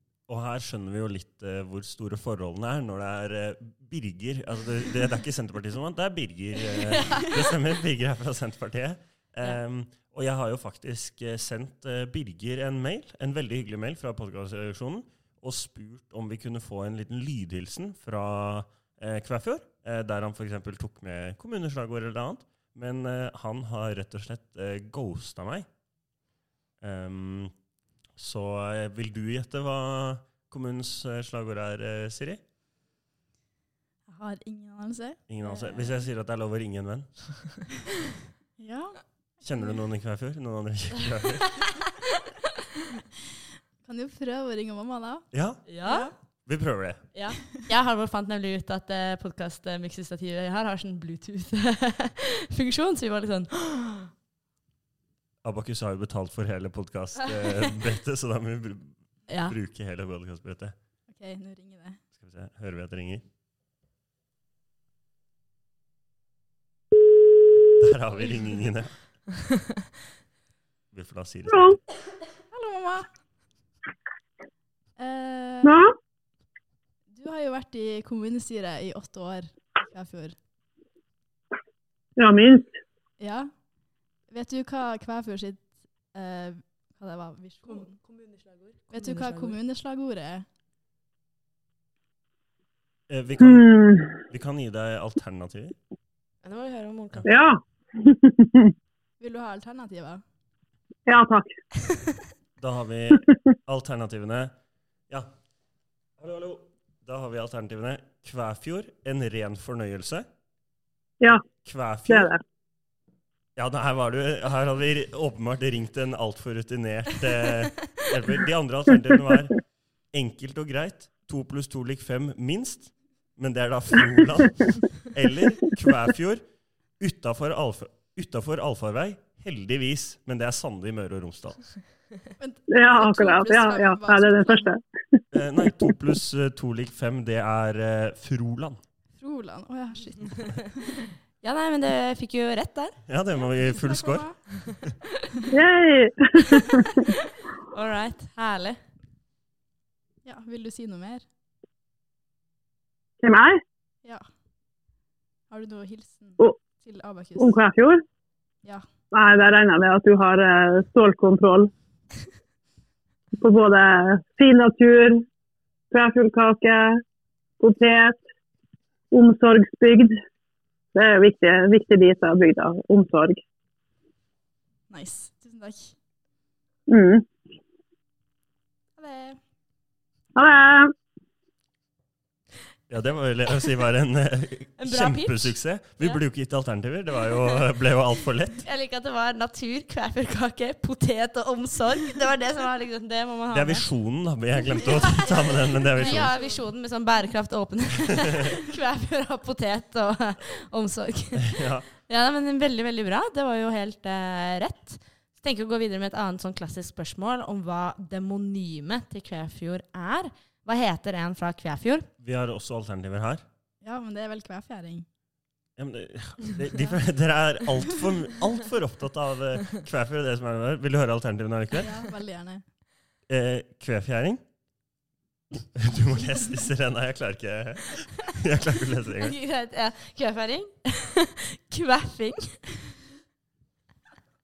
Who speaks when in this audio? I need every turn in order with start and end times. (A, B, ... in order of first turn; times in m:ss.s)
0:00.3-0:25.7 A
0:06.9-0:07.3 B
0:26.8-0:27.5 A
0:28.2-0:32.4 A
0:34.1-0:36.0 C
0:35.3-0:37.1 A
0:38.6-0:39.7 C
0:39.4-0:41.6 A
0:41.4-0:42.3 B
0:43.8-0:45.3 C
0:45.3-0:45.6 A
0:45.7-0:46.1 B
0:45.8-0:46.1 C
0:46.4-0:47.0 A
0:47.1-0:54.1 B
0:55.4-1:00.7 A
0:59.3-0:59.6 B
1:01.1-1:02.0 C
1:02.2-1:03.2 A
1:07.7-1:08.9 A
1:10.9-1:11.8 A
1:11.5-1:11.8 D
1:12.5-1:13.1 C
1:15.0-1:15.8 C
1:15.6-1:15.9 D
1:17.1-1:20.4 C
1:22.2-1:22.8 D
1:23.2-1:23.5 C
1:24.3-1:28.0 C
1:27.6-1:29.6 B
1:28.9-1:30.4 C
1:33.1-1:33.7 A
1:33.4-1:34.2 D
1:34.3-1:35.8 A
1:36.4-1:37.3 B
1:37.2-1:38.7 D
1:39.2-1:40.2 C
1:41.1-1:41.6 D
1:42.6-1:44.5 A
1:46.2-1:50.3 A
1:51.6-1:52.3 A
1:52.1-1:52.4 D
1:53.6-1:59.6 A
2:00.1-2:06.4 A
2:07.0-2:11.6 A
2:12.4-2:14.7 C
2:12.7-2:15.2 D
2:15.3-2:18.8 A
2:19.2-2:21.0 C
2:21.4-2:23.0 B
2:23.1-2:24.2 A
2:23.6-2:24.4 C
2:25.5-2:27.0 D
2:27.0-2:28.8 B
2:30.2-2:31.2 C
2:33.2-2:33.6 D
2:35.5-2:37.6 C
2:37.4-2:38.0 D
2:39.1-2:41.7 D
2:43.4-2:45.2 D
2:45.9-2:47.0 D
2:47.6-2:48.2 D
2:49.1-2:50.2 D
2:50.9-2:53.4 D
2:54.9-2:55.9 C
2:56.9-2:57.2 D
2:59.0-2:59.4 C
3:00.4-3:00.9 D
3:02.9-3:08.6 A
3:04.8-3:06.2 B
3:08.6-3:13.8 B
3:13.5-3:16.3 A
3:15.1-3:16.6 C
3:16.0-3:32.1 B
3:21.4-3:21.8 A
3:32.2-3:33.4 A
3:33.8-3:35.0 C
3:35.8-3:41.9 A
3:41.8-3:42.6 C
3:43.3-3:44.4 A
3:45.6-3:49.4 A
3:49.2-3:52.6 B